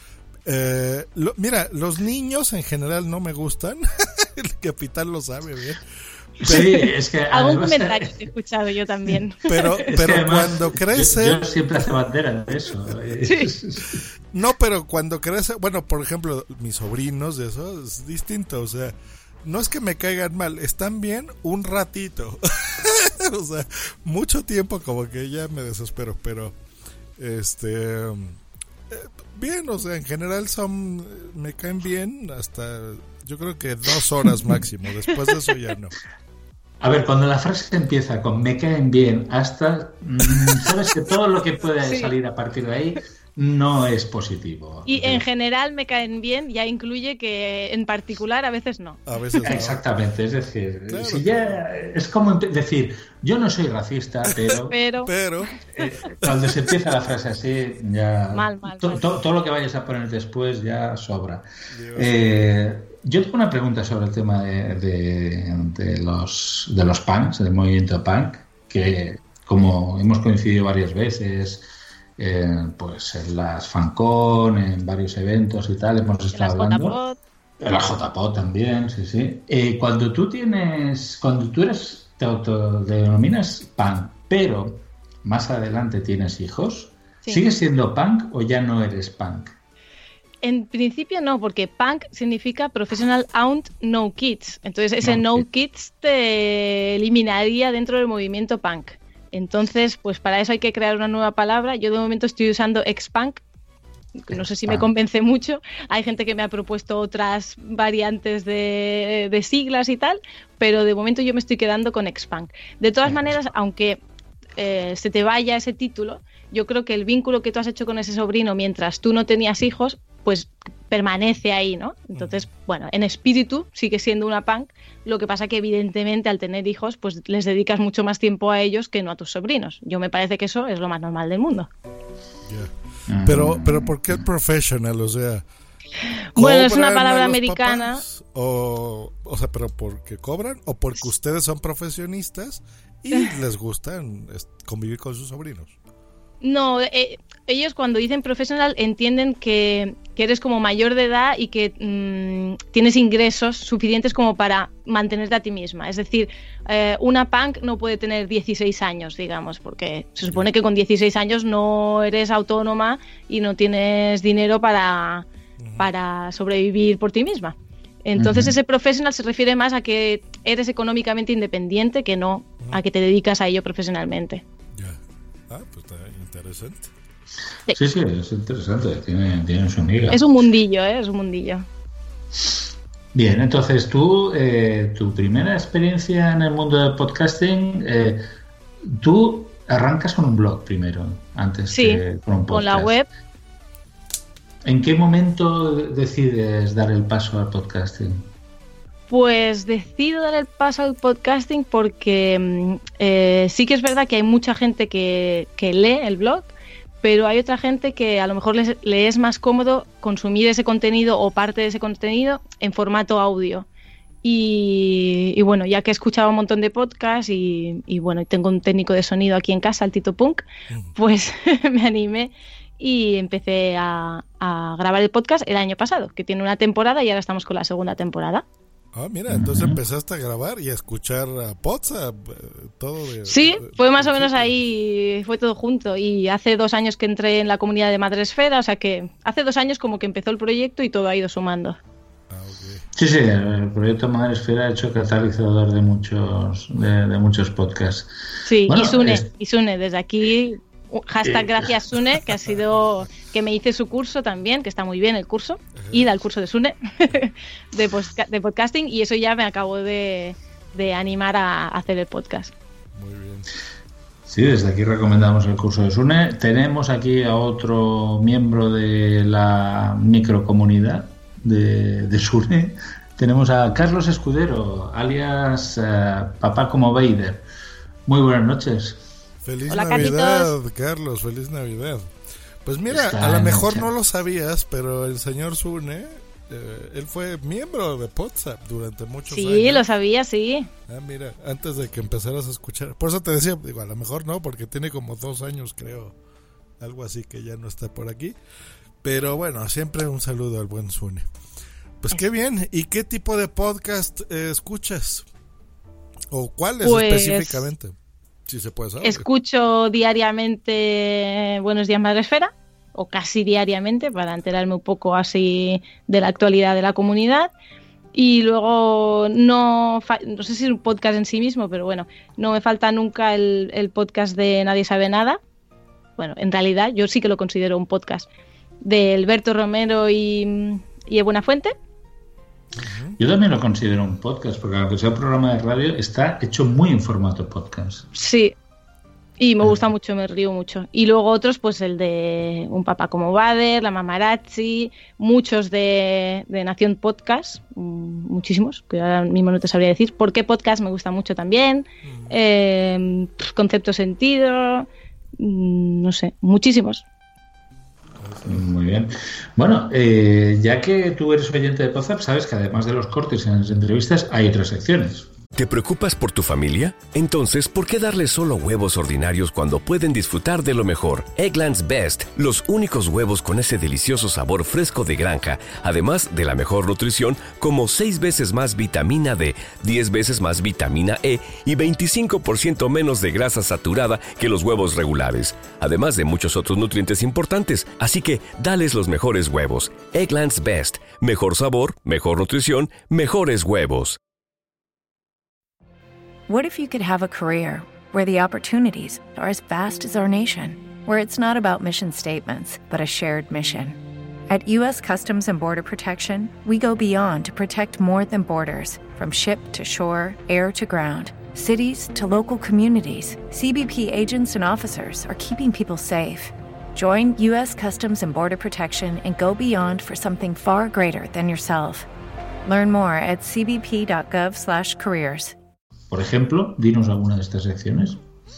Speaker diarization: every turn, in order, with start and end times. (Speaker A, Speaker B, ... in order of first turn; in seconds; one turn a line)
Speaker A: 0.5-5.8
Speaker A: 6.4-6.8
Speaker B: 6.4-8.2
Speaker C: 7.3-9.9
Speaker A: 9.5-11.4
Speaker B: 9.8-14.0
Speaker C: 13.2-13.5
Speaker A: 14.3-26.6
Speaker A: 27.2-28.4
Speaker A: 28.9-36.0
Speaker B: 36.8-45.2
Speaker C: 41.8-42.1
Speaker C: 44.9-49.0
Speaker A: 49.1-49.8
Speaker B: 49.4-54.7
Speaker A: 50.9-51.6
Speaker A: 54.5-55.6
Speaker C: 54.7-55.1
Speaker B: 55.7-77.0
Speaker A: 56.2-56.5
Speaker C: 58.3-59.0
Speaker A: 61.7-62.3
Speaker C: 76.3-77.2
Speaker B: 77.6-89.5
Speaker C: 90.4-103.4
Speaker B: 95.0-95.5
Speaker C: 104.2-114.0
Speaker B: 104.3-104.9
Speaker B: 113.0-113.3
Speaker C: 114.6-131.7
Speaker A: 122.2-122.4
Speaker A: 132.5-132.7
Speaker B: 133.1-134.3
Speaker A: 133.2-135.4
Speaker C: 136.3-138.0
Speaker A: 136.4-145.7
Speaker C: 146.4-165.3
Speaker A: 165.6-165.9
Speaker C: 165.8-174.4
Speaker B: 168.2-168.6
Speaker A: 174.8-176.9
Speaker B: 177.7-180.2
Speaker C: 180.1-181.7
Speaker B: 183.1-188.2
Speaker B: 188.9-192.9
Speaker C: 191.7-193.1
Speaker B: 194.6-198.2
Speaker C: 199.1-206.5
Speaker C: 207.0-213.7
Speaker C: 214.2-228.4
Speaker A: 228.9-234.6
Speaker B: 229.3-229.8
Speaker C: 233.3-241.8
Speaker A: 242.3-242.9
Speaker B: 242.9-248.1
Speaker C: 248.5-262.5
Speaker B: 248.7-249.3
Speaker B: 251.2-251.7
Speaker A: 255.8-256.1
Speaker A: 262.9-263.5
Speaker B: 264.3-277.4
Speaker B: 278.1-279.0
Speaker A: 279.4-282.1
Speaker C: 279.7-280.5
Speaker A: 282.6-289.8
Speaker B: 282.9-283.9
Speaker C: 289.3-290.7
Speaker A: 290.9-296.1
Speaker A: 296.8-298.4
Speaker A: 299.0-301.3
Speaker A: 302.0-305.3
Speaker A: 306.3-307.9
Speaker C: 306.8-307.7
Speaker A: 308.5-309.3
Speaker C: 309.0-317.5
Speaker C: 318.1-325.4
Speaker C: 326.2-328.3
Speaker C: 328.8-331.7
Speaker A: 332.8-333.2
Speaker B: 333.2-338.1
Speaker C: 338.1-338.5
Speaker C: 339.4-354.9
Speaker A: 352.0-352.4
Speaker C: 355.4-357.0
Speaker A: 358.2-358.7
Speaker B: 358.5-365.3
Speaker D: 365.6-394.2
Speaker E: 396.5-422.1
Speaker E: 422.7-425.6
Speaker B: 426.1-428.2